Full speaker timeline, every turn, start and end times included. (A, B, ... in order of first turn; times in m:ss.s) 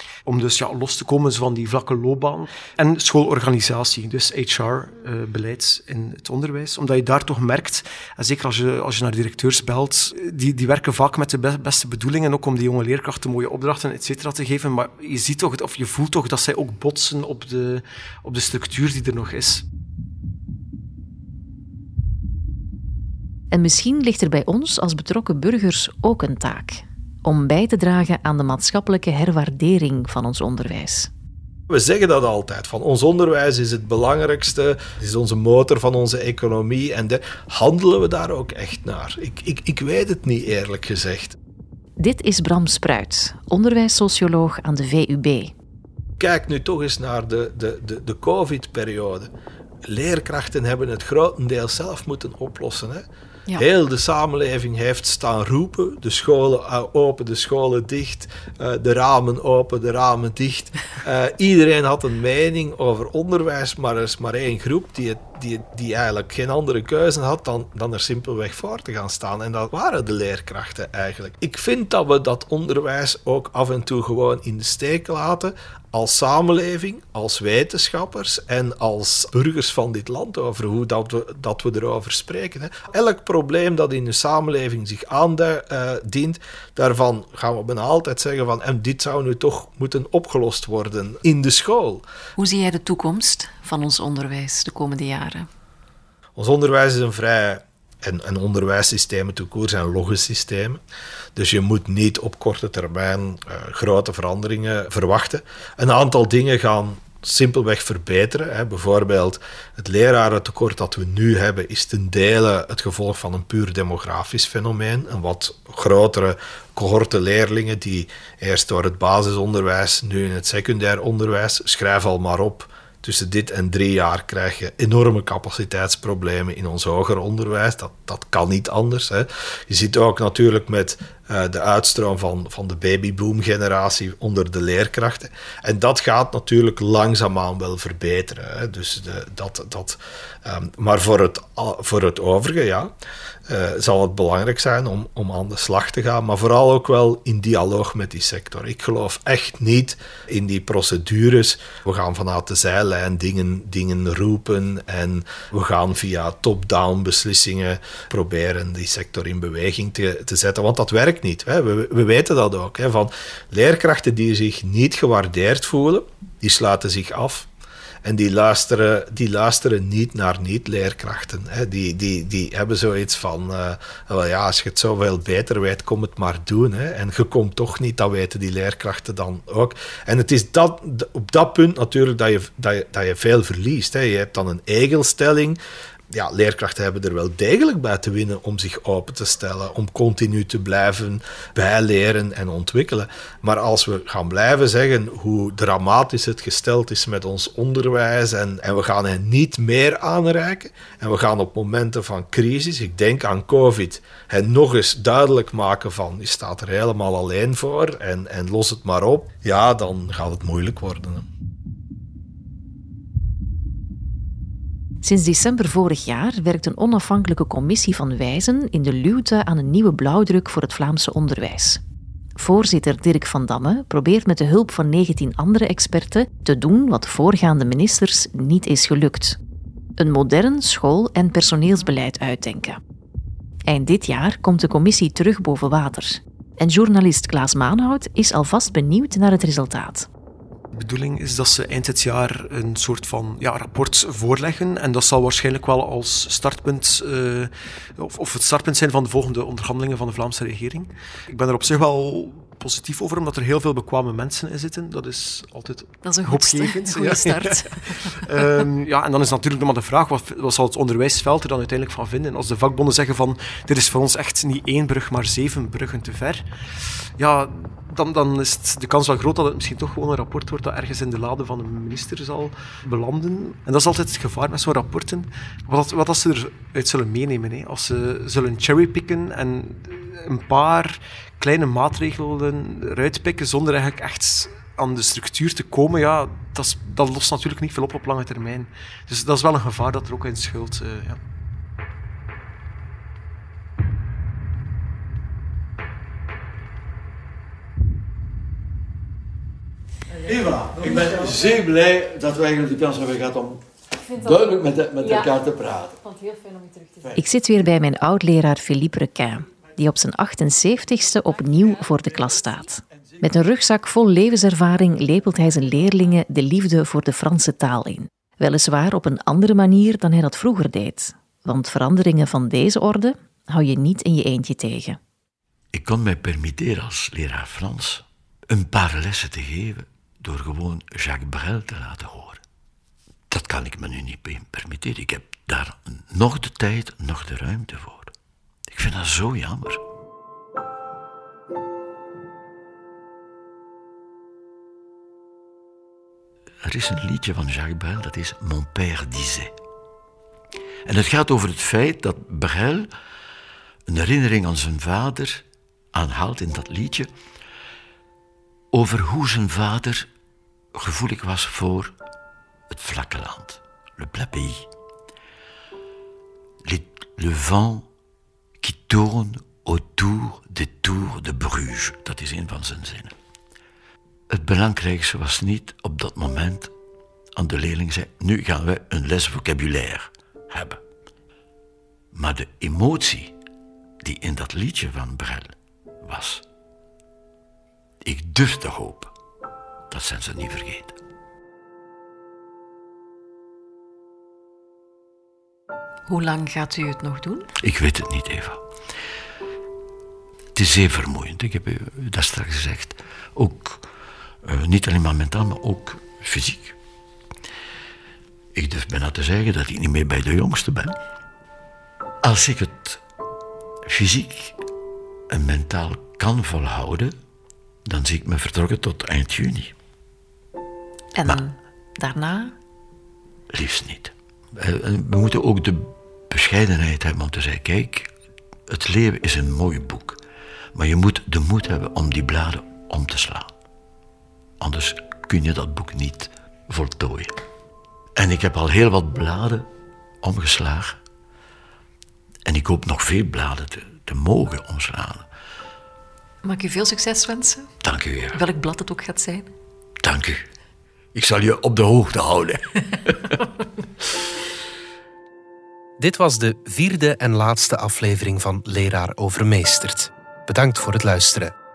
0:00.2-0:19.6 A
0:23.5-0:31.1 B
0:31.7-0:41.3 C
0:42.0-0:45.5 B
0:46.2-0:49.3 C
0:49.9-1:32.0 C
1:32.4-1:35.5 B
1:36.4-1:40.8 C
1:41.4-2:22.9 C
2:23.5-2:47.5 C
2:48.0-3:05.6 C
3:06.1-3:31.3 C
3:35.0-3:41.8 B
3:42.4-3:49.4 B
3:50.0-3:52.8 B
3:53.7-4:00.1 B
4:00.7-4:26.5 A
4:16.0-4:18.6 B
4:27.1-4:51.2 A
5:00.3-5:02.0 D
5:00.8-5:03.6 E
5:04.4-5:05.7 E
5:05.2-5:05.8 D
5:06.4-5:25.0 B
5:25.7-5:32.4 E
5:33.3-5:38.1 E
5:38.7-5:39.8 E
5:46.6-5:49.5 E
5:50.8-5:52.9 E
5:53.9-5:57.1 E
5:58.7-6:00.1 E
6:00.7-6:01.9 E
6:02.7-6:04.7 E
6:06.6-6:07.9 E
6:08.6-6:13.1 E
6:14.3-6:16.7 E
6:17.4-6:20.8 E
6:22.1-6:23.3 E
6:24.0-6:26.4 E
6:28.0-6:29.1 E
6:29.9-6:31.0 E
6:36.1-6:37.5 B
6:37.6-6:38.6 E
6:40.5-6:43.9 E
6:44.4-6:46.8 E
6:48.5-6:51.0 E
6:52.2-6:53.0 E
6:53.8-6:54.6 E
6:55.3-6:57.1 E
6:57.8-6:59.7 E
7:01.1-7:02.5 B
7:03.5-7:08.1 E
7:08.7-7:10.2 E
7:10.7-7:13.5 E
7:14.6-7:17.4 E
7:18.2-7:19.7 E
7:20.2-7:21.0 E
7:22.4-7:25.3 E
7:26.4-7:27.7 B
7:27.8-7:28.4 E
7:28.3-7:29.5 B
7:30.0-7:30.5 E
7:31.1-7:33.5 E
7:36.0-7:41.5 F